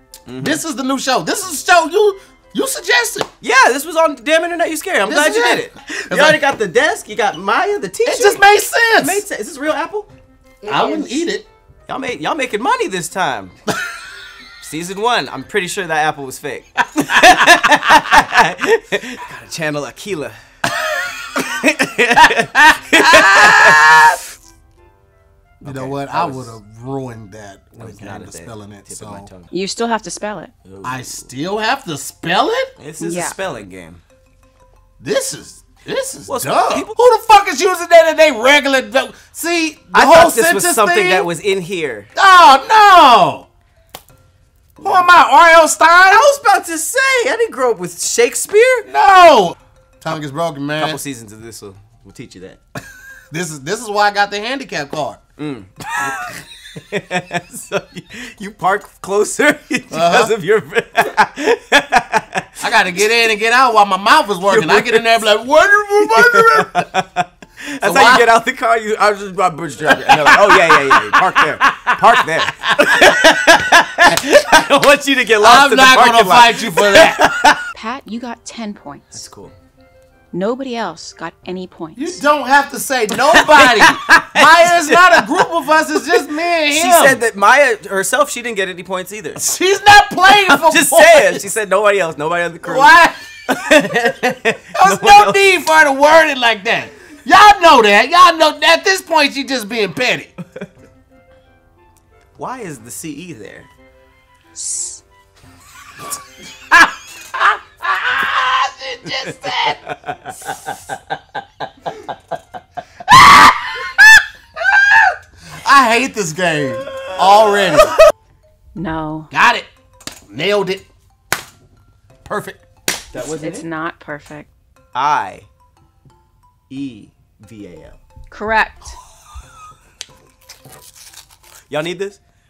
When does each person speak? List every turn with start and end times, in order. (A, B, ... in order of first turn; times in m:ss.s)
0:00.3-0:00.6 A
0:00.4-0:03.3 B
0:03.4-0:08.4 A
0:05.0-0:06.4 B
0:08.0-0:09.2 B
0:09.0-0:10.1 A
0:10.6-0:11.5 B
0:11.9-0:13.6 A
0:14.6-0:20.4 A
0:21.3-0:23.9 A
0:22.6-0:24.2 B
0:25.6-0:29.3 B
0:25.6-0:26.6 A
0:27.8-0:29.5 A
0:29.5-0:30.5 C
0:30.6-0:31.3 A
0:30.8-0:32.7 B
0:32.8-0:34.0 A
0:33.0-0:33.4 C
0:35.0-0:41.3 B
0:36.3-0:37.0 A
0:39.9-0:42.1 A
0:42.2-0:43.5 B
0:44.8-0:45.1 A
0:44.8-0:46.3 B
0:46.1-0:48.9 A
0:48.9-0:51.0 B
0:50.8-0:52.6 A
0:53.3-0:55.2 B
0:55.4-1:02.6 A
0:59.9-1:00.3 B
1:02.6-1:06.9 B
1:04.5-1:05.2 A
1:06.0-1:17.6 A
1:07.8-1:08.3 B
1:09.8-1:13.3 B
1:15.4-1:17.3 B
1:17.7-1:19.1 C
1:19.1-1:19.6 A
1:20.3-1:22.2 C
1:22.0-1:27.2 B
1:23.3-1:25.5 A
1:26.1-1:29.4 A
1:29.4-1:31.4 B
1:30.2-1:33.0 A
1:32.6-1:34.0 B
1:33.5-1:35.5 A
1:34.7-1:40.4 B
1:42.4-1:43.7 A
1:44.6-1:45.0 C
1:47.4-1:49.8 B
1:49.1-1:50.7 A
1:53.1-1:54.0 B
1:55.5-1:58.0 B
1:57.3-1:57.8 A
1:58.8-1:59.3 C
1:59.3-1:59.7 B
2:00.3-2:00.9 B
2:02.3-2:02.6 B
2:03.1-2:03.7 A
2:03.2-2:04.5 C
2:04.9-2:05.5 A
2:06.7-2:08.0 A
2:08.3-2:09.0 C
2:11.7-2:12.2 A